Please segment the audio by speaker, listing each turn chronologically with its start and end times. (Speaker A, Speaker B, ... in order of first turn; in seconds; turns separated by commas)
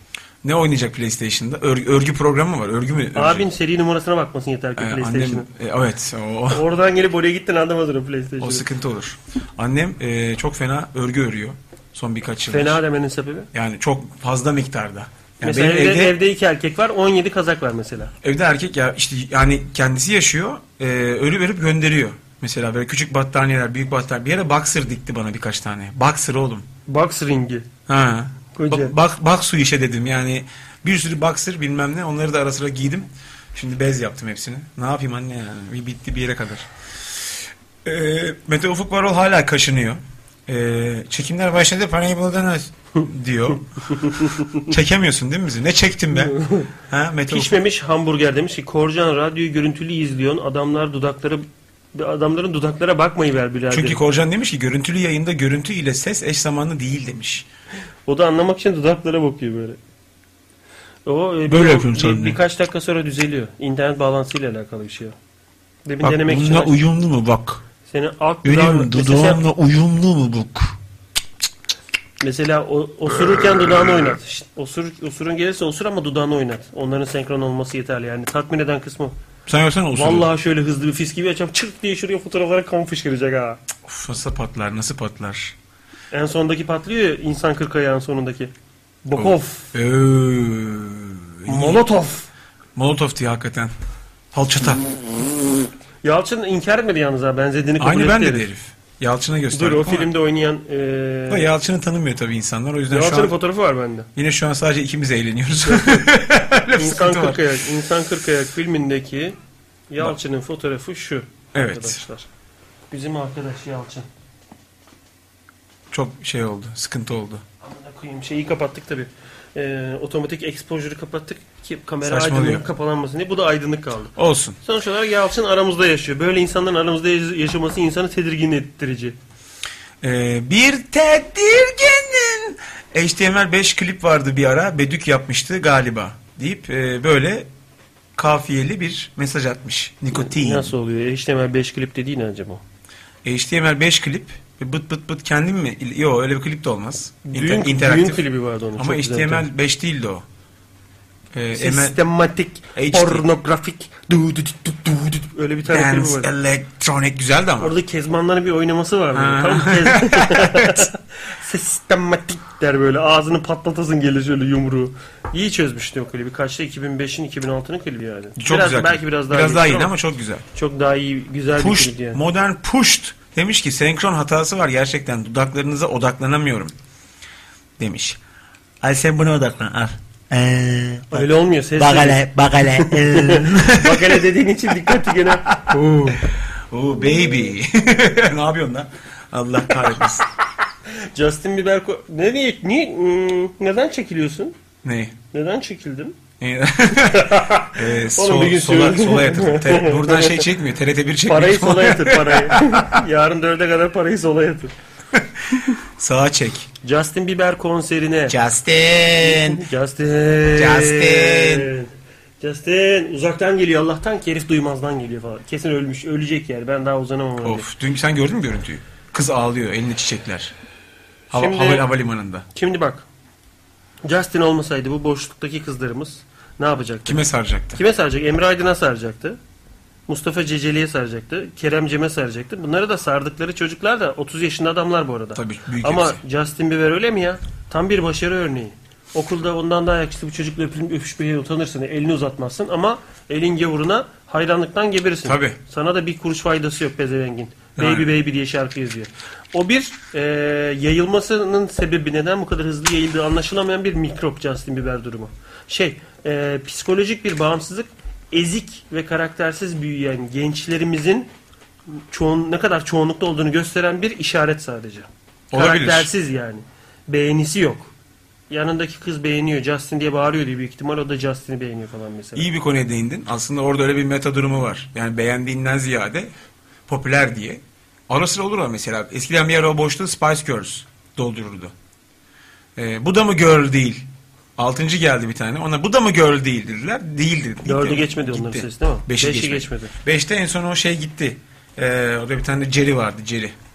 Speaker A: 0.4-3.5, Speaker B: 3.1-5.5, Speaker A: 4.8-6.6, Speaker B: 6.5-8.6, Speaker A: 8.4-12.8, Speaker B: 12.5-13.5, Speaker A: 13.5-16.1, Speaker B: 15.4-18.1, Speaker A: 18.2-26.7, Speaker B: 26.9-27.7, Speaker A: 27.9-37.3, Speaker B: 28.5-28.9, Speaker A: 37.8-44.1, Speaker B: 44.0-44.6, Speaker A: 44.6-47.6, Speaker B: 46.1-46.7, Speaker B: 47.3-54.0, Speaker A: 53.7-57.5, Speaker B: 58.0-59.8, Speaker B: 61.0-65.1, Speaker A: 61.5-62.4, Speaker B: 65.8-66.8, Speaker A: 66.0-67.6, Speaker B: 67.8-69.4, Speaker A: 68.4-70.8, Speaker B: 72.2-79.1, Speaker A: 79.5-80.3, Speaker B: 79.9-83.6, Speaker A: 83.8-85.5, Speaker B: 86.1-88.5, Speaker B: 89.0-89.7, Speaker A: 89.2-91.8, Speaker B: 91.5-92.3, Speaker A: 92.7-93.7, Speaker A: 94.3-94.8, Speaker B: 96.0-98.5, Speaker A: 97.8-100.1, Speaker B: 99.5-101.5, Speaker A: 101.3-103.3, Speaker B: 102.9-104.1, Speaker A: 104.2-107.5, Speaker B: 105.6-106.1, Speaker B: 106.7-109.3, Speaker B: 109.9-112.3, Speaker A: 111.5-112.0, Speaker B: 112.9-114.1, Speaker A: 115.9-117.4, Speaker B: 117.6-129.2, Speaker A: 122.0-122.7, Speaker A: 124.2-124.6, Speaker A: 130.0-137.5, Speaker A: 138.2-140.7, Speaker B: 140.1-142.6, Speaker A: 143.2-148.2, Speaker B: 147.2-149.5, Speaker A: 148.8-150.2, Speaker A: 151.3-152.0, Speaker B: 151.5-156.3, Speaker A: 152.7-153.2, Speaker A: 155.7-157.7, Speaker B: 157.6-169.9, Speaker A: 159.1-160.9, Speaker A: 168.4-170.4, Speaker B: 170.5-172.2, Speaker A: 171.6-176.7, Speaker A: 177.8-178.2, Speaker A: 178.8-179.9, Speaker C: 178.9-179.7, Speaker C: 180.3-181.1, Speaker B: 181.1-186.2, Speaker C: 181.8-183.8, Speaker A: 181.8-182.2, Speaker A: 185.6-190.2, Speaker B: 191.1-194.6, Speaker A: 194.8-195.2, Speaker B: 195.3-196.2, Speaker A: 196.4-202.9, Speaker B: 197.1-200.5, Speaker B: 201.3-204.7, Speaker A: 205.1-206.7, Speaker B: 206.8-208.3, Speaker A: 208.3-209.5, Speaker C: 208.5-208.9, Speaker B: 209.2-217.7, Speaker A: 210.6-211.7, Speaker A: 217.4-220.5, Speaker B: 221.3-221.9, Speaker A: 221.3-222.4, Speaker B: 222.5-223.1, Speaker B: 224.0-229.4, Speaker A: 227.0-227.8, Speaker B: 230.1-261.3, Speaker A: 235.3-236.2, Speaker A: 245.2-245.6, Speaker A: 247.8-248.1, Speaker B: 261.9-267.9, Speaker A: 265.5-266.1, Speaker B: 268.5-272.5, Speaker A: 272.4-276.3, Speaker A: 276.9-281.7, Speaker A: 282.8-293.5, Speaker B: 287.6-289.9